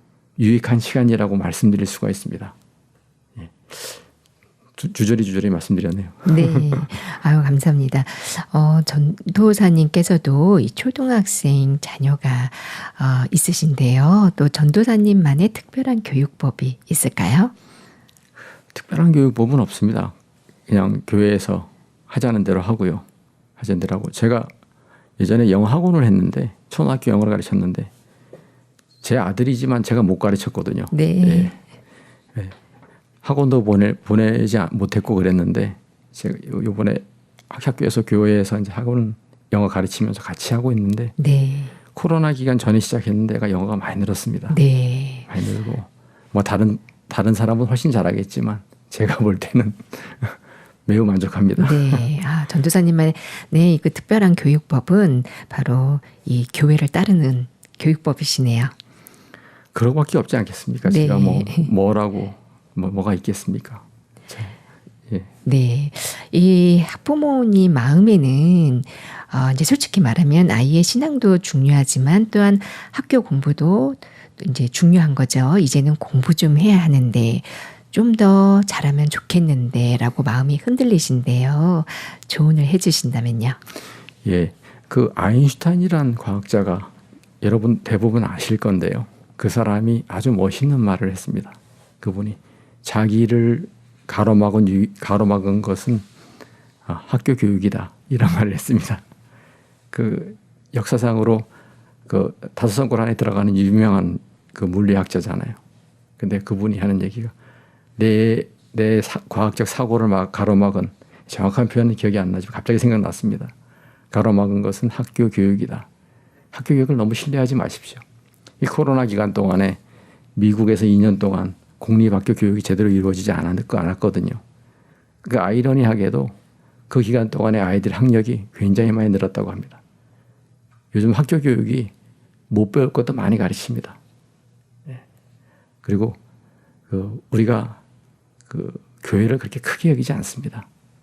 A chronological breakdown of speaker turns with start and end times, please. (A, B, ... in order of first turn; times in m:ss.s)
0:00.4-0:02.6 A
0:03.4-0:04.0 A
0:04.8-0:06.9 A
0:06.3-0:17.5 B
0:18.7-0:20.2 A
0:20.7-0:23.1 A
0:23.6-0:24.5 A
0:25.2-0:27.9 A
0:29.0-0:31.6 A
0:30.9-0:31.6 B
0:33.2-0:41.2 A
0:41.2-0:41.8 B
0:41.9-0:44.6 A
0:44.5-0:45.3 B
0:45.3-0:52.0 A
0:51.6-0:58.7 B
0:59.7-1:04.6 A
1:00.8-1:01.7 B
1:05.4-1:23.6 B
1:24.2-1:36.0 A
1:36.9-1:39.0 A
1:39.9-1:41.5 A
1:42.1-1:45.6 A
1:46.2-1:47.3 A
1:48.0-1:53.5 A
1:54.1-1:55.9 A
1:56.5-1:58.0 A
1:58.6-1:59.8 A
2:00.4-2:04.4 A
2:05.2-2:06.4 A
2:06.9-2:09.8 A
2:10.9-2:11.9 A
2:12.5-2:14.0 A
2:15.8-2:16.2 A
2:16.9-2:17.8 A
2:18.5-2:20.7 A